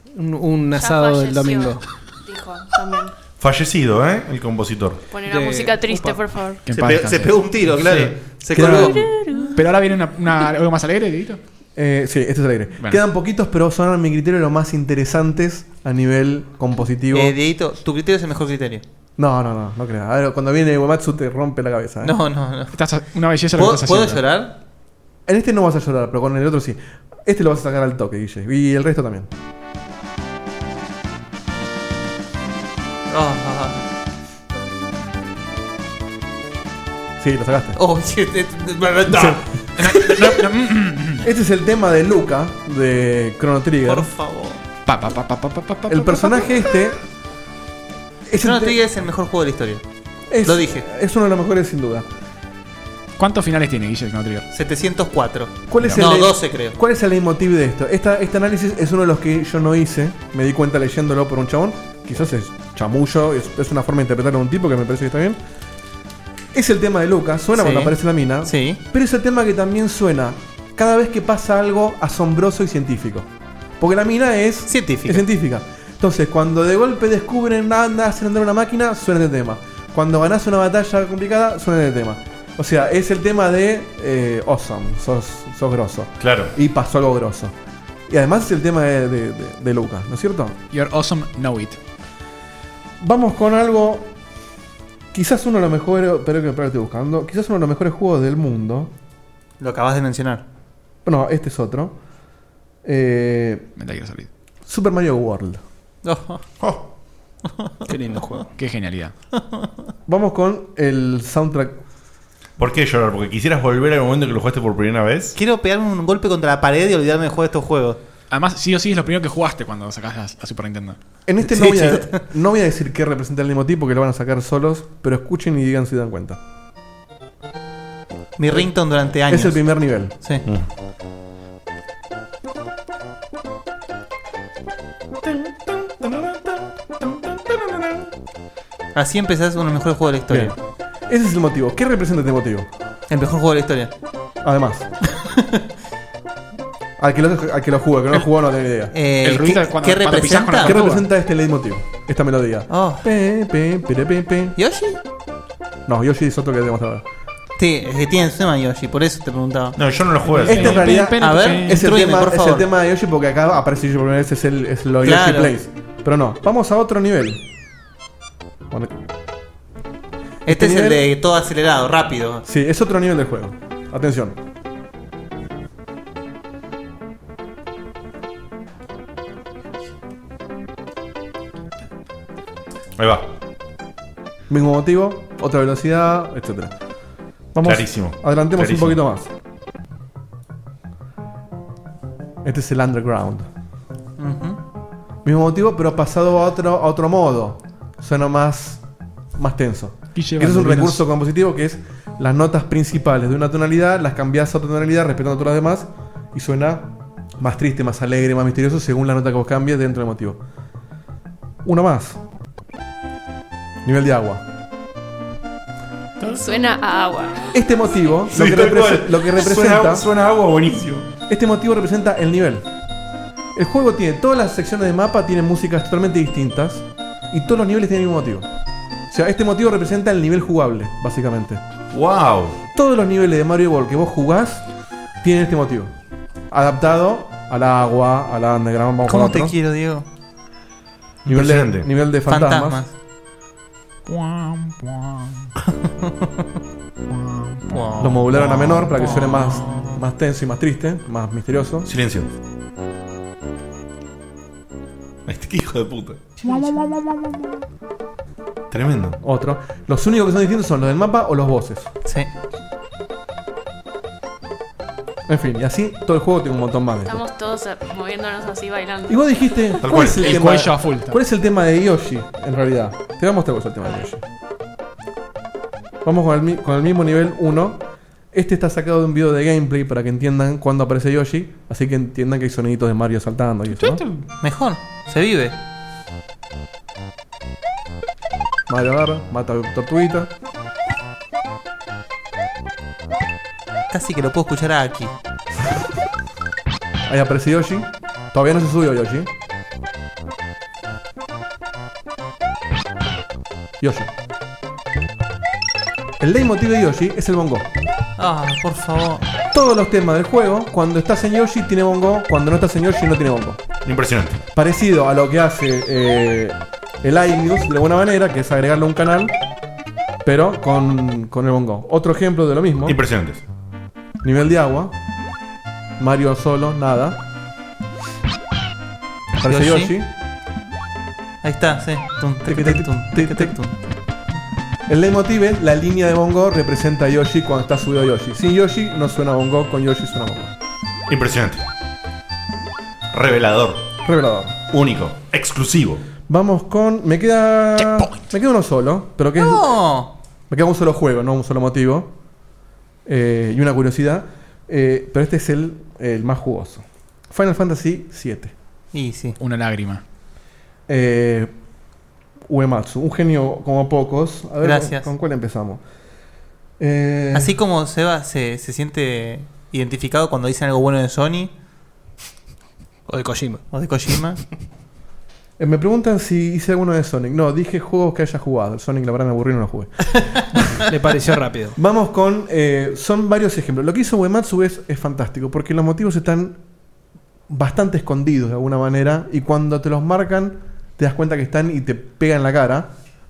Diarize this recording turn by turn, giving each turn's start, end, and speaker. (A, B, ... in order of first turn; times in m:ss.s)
0:00.1-0:01.8 A
0:00.8-0:03.2 B
0:03.4-0:05.0 C
0:05.1-0:06.6 B
0:05.2-0:06.2 A
0:06.7-0:07.4 D
0:06.7-0:09.2 E
0:07.8-0:08.2 C
0:08.5-0:09.1 F
0:08.6-0:09.6 B
0:09.6-0:11.4 D
0:11.8-0:17.3 F
0:17.1-0:18.8 E
0:19.2-0:22.1 F
0:22.0-0:22.8 E
0:22.7-0:24.2 D
0:23.6-0:24.6 E
0:25.3-0:29.3 F
0:33.1-0:33.8 E
0:37.2-0:37.8 F
0:37.8-0:39.4 E
0:39.1-0:39.4 F
0:39.8-0:41.3 D
0:41.2-0:44.1 F
0:43.8-0:44.6 E
0:44.9-0:46.7 D
0:45.9-0:47.0 F
0:48.3-0:48.8 F
0:48.4-0:49.8 E
0:50.3-0:52.1 F
0:50.4-0:50.8 E
0:53.2-0:54.5 D
0:54.5-0:56.8 E
0:55.7-1:05.4 F
1:06.5-1:13.3 F
1:07.6-1:08.8 E
1:13.8-1:27.5 F
1:14.7-1:15.3 E
1:26.2-1:26.5 C
1:28.1-1:30.6 F
1:30.7-1:31.8 D
1:33.0-1:34.1 F
1:35.1-1:38.9 F
1:39.6-1:40.4 E
1:41.0-1:42.0 F
1:42.8-1:43.7 F
1:43.8-1:44.3 D
1:44.7-1:45.6 F
1:46.0-1:46.4 E
1:46.6-1:46.9 C
1:47.9-1:48.5 A
1:48.6-1:49.1 D
1:49.3-1:49.7 E
1:50.1-1:51.8 F
1:52.6-1:55.4 C
1:55.4-1:58.0 E
1:58.3-2:01.0 D
2:01.3-2:06.4 F
2:01.4-2:02.2 E
2:08.4-2:09.7 E
2:09.3-2:10.2 F
2:15.2-2:18.1 C
2:19.0-2:20.5 E
2:20.3-2:20.6 F
2:21.1-2:22.7 F
2:23.1-2:23.9 E
2:24.4-2:24.9 F
2:25.2-2:25.6 E
2:27.0-2:28.9 F
2:28.9-2:30.8 E
2:29.2-2:31.0 D
2:30.6-2:34.6 F
2:32.7-2:33.0 E
2:34.6-2:35.0 E
2:35.9-2:37.0 F
2:37.6-2:39.8 E
2:39.8-2:40.9 C
2:40.3-2:41.9 D
2:40.4-2:47.4 F
2:41.0-2:42.7 E
2:45.0-2:45.5 E
2:50.5-2:52.4 E
2:50.5-2:51.0 F
2:52.5-2:54.4 F
3:03.0-3:03.3 C
3:04.5-3:06.7 F
3:07.5-3:09.3 F
3:07.6-3:09.0 C
3:12.4-3:13.5 F
3:14.2-3:14.6 E
3:15.2-3:18.8 F
3:19.4-3:30.4 F
3:20.2-3:21.0 D
3:31.6-3:32.2 F
3:33.8-3:34.4 F
3:36.2-3:37.6 B
3:37.5-3:40.1 F
3:38.3-3:41.1 C
3:41.3-3:42.7 F
3:43.6-3:48.5 F
3:49.1-3:51.6 F
3:51.9-3:52.6 C
3:52.8-3:54.6 F
3:55.2-3:55.9 F
3:56.5-3:59.6 F
3:59.1-4:00.0 E
4:01.2-4:01.9 C
4:01.3-4:02.8 F
4:02.3-4:02.9 E
4:04.1-4:05.1 D
4:05.9-4:06.3 E
4:07.7-4:10.0 E
4:08.0-4:11.9 F
4:11.9-4:12.3 C
4:15.3-4:16.2 C
4:16.4-4:16.9 E
4:18.7-4:19.2 C
4:19.2-4:21.9 F
4:25.3-4:27.2 F
4:27.0-4:29.8 B
4:29.1-4:34.2 F
4:29.8-4:30.4 C
4:30.0-4:31.2 D
4:36.0-4:44.0 F
4:44.4-4:45.6 E
4:48.7-4:50.3 F
4:53.9-4:55.1 E
4:57.1-4:59.3 F
5:03.8-5:04.1 F
5:06.2-5:07.7 F
5:08.2-5:09.2 E
5:09.5-5:13.6 F
5:13.8-5:14.4 C
5:14.6-5:19.4 F
5:20.2-5:23.0 F
5:22.9-5:23.4 C
5:24.2-5:25.0 F
5:26.0-5:27.2 F
5:29.4-5:30.1 F
5:29.5-5:29.9 E
5:31.4-5:33.8 E
5:32.5-5:33.6 F
5:34.9-5:40.5 F
5:41.1-5:41.6 C
5:43.1-5:43.9 C
5:44.0-5:44.6 F
5:44.7-5:46.0 C
5:46.3-5:49.7 F
5:49.4-5:50.1 E
5:50.5-5:52.1 F
5:53.1-5:58.5 F
5:58.9-5:59.4 E
5:59.4-6:00.0 D
6:00.9-6:01.5 F
6:02.5-6:05.8 F
6:04.6-6:05.1 E
6:06.8-6:07.5 F
6:07.3-6:11.5 E
6:13.1-6:13.6 A
6:13.7-6:14.4 E
6:15.6-6:20.6 F
6:20.9-6:21.8 A
6:21.8-6:26.6 F
6:27.5-6:32.9 F